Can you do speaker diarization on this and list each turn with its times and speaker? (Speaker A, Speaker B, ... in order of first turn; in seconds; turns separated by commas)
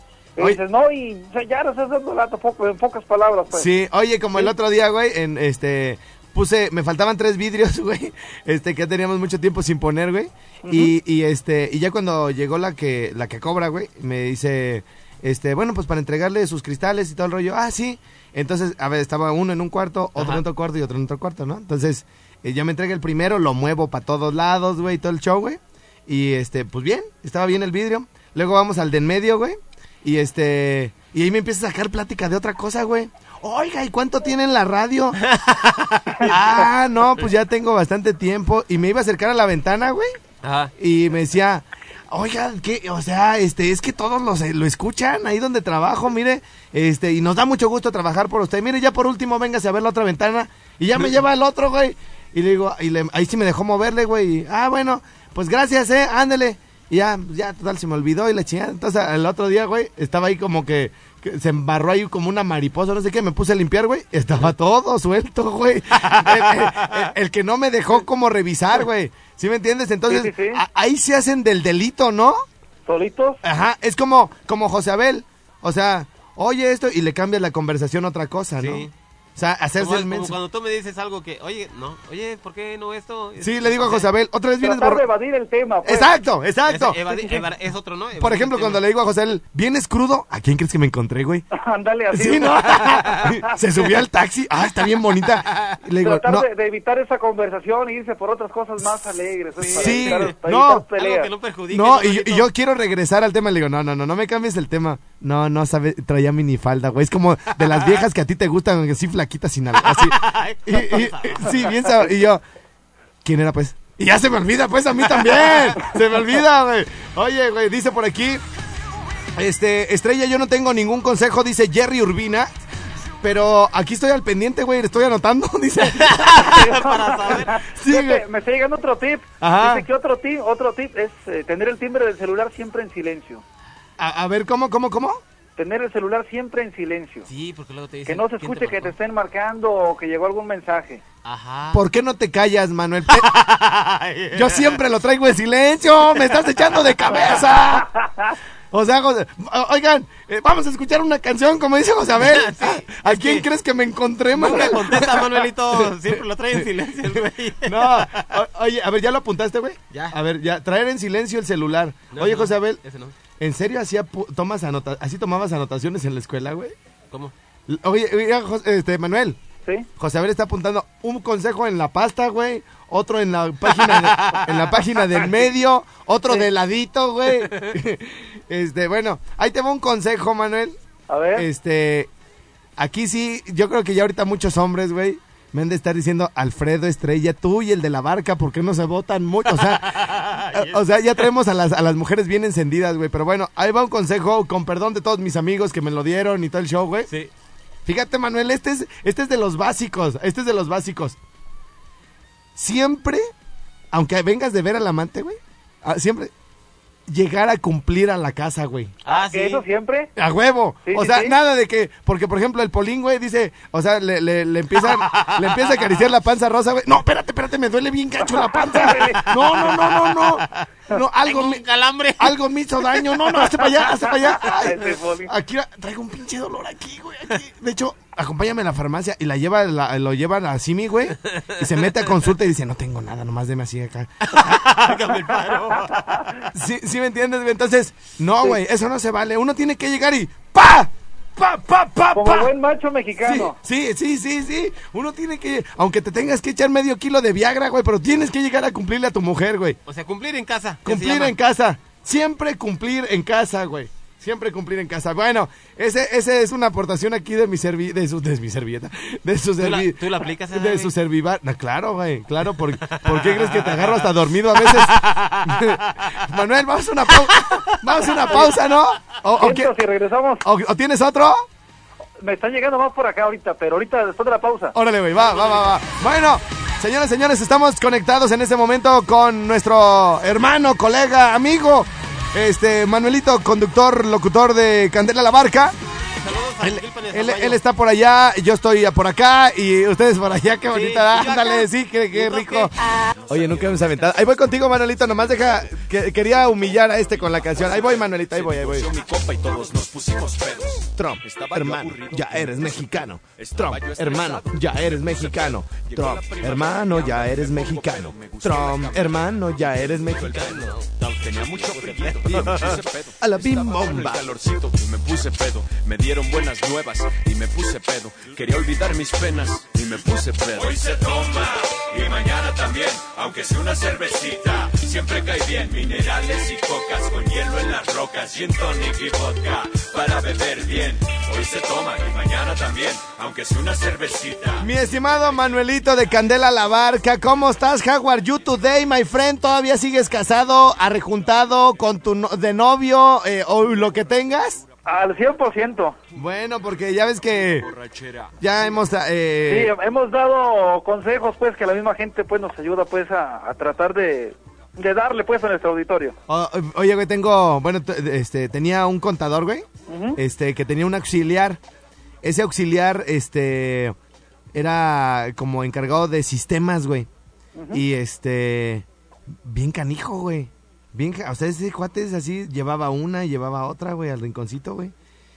Speaker A: 0.4-3.7, Speaker B: 3.5-35.2, Speaker A: 10.6-10.9, Speaker C: 35.2-36.5, Speaker B: 36.2-40.1, Speaker C: 40.4-40.7, Speaker B: 40.8-72.4, Speaker C: 65.9-67.1, Speaker A: 70.1-70.6, Speaker A: 72.8-73.4, Speaker B: 73.4-80.3, Speaker C: 78.6-78.9, Speaker C: 79.8-84.1, Speaker B: 83.4-85.0, Speaker A: 84.6-86.2, Speaker B: 85.8-87.0, Speaker C: 86.7-88.8, Speaker A: 87.1-87.4, Speaker B: 88.2-91.4, Speaker A: 91.5-93.5, Speaker B: 92.1-96.5, Speaker C: 95.2-95.8, Speaker A: 96.0-101.3, Speaker C: 99.6-100.3, Speaker B: 99.7-100.8, Speaker C: 100.9-102.5, Speaker B: 101.7-112.4, Speaker C: 107.7-108.0, Speaker C: 109.8-112.2, Speaker B: 113.2-118.4, Speaker C: 115.0-116.0, Speaker B: 119.3-122.5, Speaker B: 123.2-126.8, Speaker C: 125.9-127.7, Speaker A: 126.4-133.4, Speaker B: 127.6-128.2, Speaker B: 129.4-129.8, Speaker B: 134.0-135.2, Speaker A: 135.6-137.3, Speaker C: 137.3-138.9, Speaker A: 138.1-141.0, Speaker C: 141.2-141.8, Speaker B: 141.7-143.8, Speaker C: 143.1-144.8, Speaker B: 144.3-147.9, Speaker C: 146.1-147.5, Speaker B: 148.7-156.2, Speaker C: 152.2-153.5, Speaker C: 154.3-158.3, Speaker B: 157.1-162.8, Speaker C: 162.1-163.1, Speaker B: 163.4-166.7, Speaker B: 167.7-169.4, Speaker B: 170.0-180.8, Speaker C: 173.7-174.9, Speaker C: 177.4-177.7, Speaker A: 181.1-181.5, Speaker B: 181.3-182.1, Speaker B: 182.8-197.1, Speaker C: 189.4-191.3, Speaker B: 197.8-201.2, Speaker B: 202.6-203.2, Speaker B: 203.9-206.3, Speaker B: 207.1-208.9, Speaker C: 209.0-209.6, Speaker A: 209.1-210.1, Speaker B: 210.2-221.6, Speaker A: 210.8-211.3, Speaker C: 214.8-216.0, Speaker A: 218.3-219.2, Speaker C: 219.2-220.7, Speaker C: 221.2-223.8, Speaker B: 222.2-234.1, Speaker A: 223.9-225.3, Speaker C: 231.2-231.8, Speaker C: 234.2-236.3, Speaker A: 235.7-236.4, Speaker B: 236.5-242.5, Speaker A: 242.1-243.6, Speaker B: 243.2-249.8, Speaker C: 249.8-251.3, Speaker B: 250.8-269.7, Speaker C: 259.6-260.9, Speaker C: 262.6-266.3, Speaker C: 267.1-268.8, Speaker A: 269.4-270.4, Speaker B: 270.4-271.4, Speaker A: 272.2-274.7, Speaker B: 274.7-285.7, Speaker C: 275.3-275.7, Speaker C: 286.2-287.6, Speaker B: 286.6-292.7, Speaker C: 290.7-292.9, Speaker B: 293.3-298.9, Speaker D: 293.3-293.9, Speaker D: 297.4-334.7, Speaker B: 300.9-310.7, Speaker C: 311.5-312.8, Speaker B: 312.2-314.3, Speaker B: 334.6-344.6, Speaker A: 344.9-345.9, Speaker B: 346.1-347.7, Speaker D: 347.3-348.4, Speaker B: 348.4-349.7, Speaker A: 349.5-356.1, Speaker B: 356.3-361.6, Speaker A: 359.9-360.2, Speaker B: 362.2-363.9, Speaker B: 364.5-367.1, Speaker A: 367.6-367.8, Speaker B: 367.7-368.8, Speaker B: 369.4-374.9